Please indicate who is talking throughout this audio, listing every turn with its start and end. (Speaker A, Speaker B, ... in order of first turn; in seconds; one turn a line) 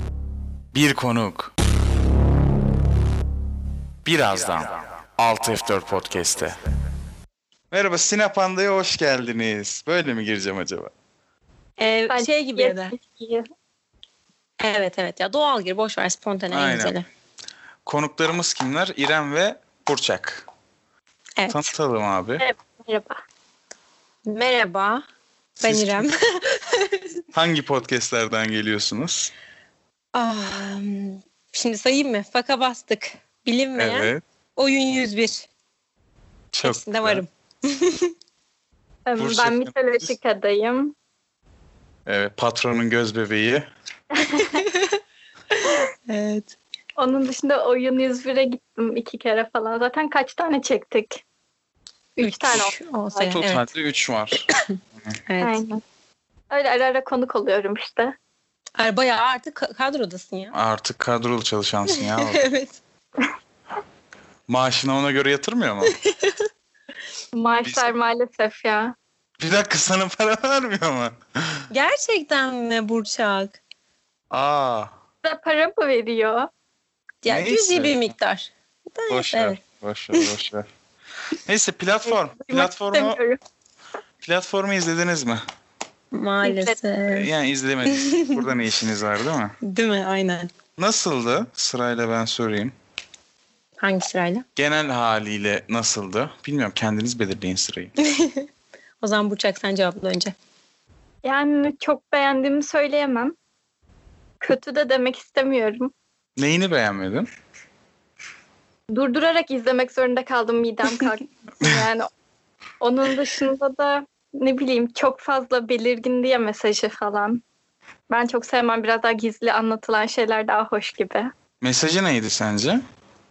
Speaker A: 0.7-1.5
Speaker A: 4.0-6.6
Speaker A: 7.7-10.9
Speaker B: 11.8-12.9
Speaker C: 12.1-13.5
Speaker B: 14.6-17.0
Speaker A: 16.5-16.9
Speaker A: 17.8-20.5
Speaker B: 21.4-21.7
Speaker A: 21.5-22.4
Speaker C: 22.4-23.2
Speaker B: 24.2-25.0
Speaker A: 25.6-26.1
Speaker B: 25.6-27.1
Speaker A: 27.3-29.3
Speaker B: 30.1-35.5
Speaker A: 33.8-34.2
Speaker A: 36.5-37.2
Speaker B: 36.6-38.1
Speaker C: 39.0-41.0
Speaker A: 39.2-40.1
Speaker A: 42.0-43.7
Speaker C: 44.1-44.6
Speaker B: 44.3-45.0
Speaker B: 45.5-46.5
Speaker C: 47.0-51.2
Speaker C: 52.2-53.3
Speaker B: 52.2-53.7
Speaker A: 53.3-54.5
Speaker B: 55.3-55.6
Speaker C: 55.4-55.8
Speaker C: 56.5-58.1
Speaker B: 58.8-60.5
Speaker A: 60.5-62.5
Speaker B: 61.9-62.8
Speaker A: 64.5-66.0
Speaker B: 65.9-66.5
Speaker C: 67.3-69.0
Speaker A: 67.6-67.9
Speaker A: 69.4-71.7
Speaker B: 71.7-73.6
Speaker A: 74.3-74.9
Speaker C: 75.2-76.5
Speaker B: 77.2-79.6
Speaker A: 77.3-78.1
Speaker A: 79.1-80.7
Speaker A: 81.4-83.2
Speaker C: 82.1-83.4
Speaker A: 84.2-85.4
Speaker B: 86.1-87.3
Speaker C: 86.4-86.8
Speaker A: 87.1-89.6
Speaker B: 87.9-88.4
Speaker B: 89.6-90.5
Speaker A: 90.8-92.7
Speaker B: 93.8-94.5
Speaker A: 94.6-97.9
Speaker B: 98.0-98.5
Speaker B: 99.0-100.3
Speaker C: 101.2-103.3
Speaker C: 104.4-105.9
Speaker A: 106.4-107.3
Speaker C: 108.9-112.1
Speaker C: 112.8-117.4
Speaker C: 118.1-121.3
Speaker A: 121.6-122.8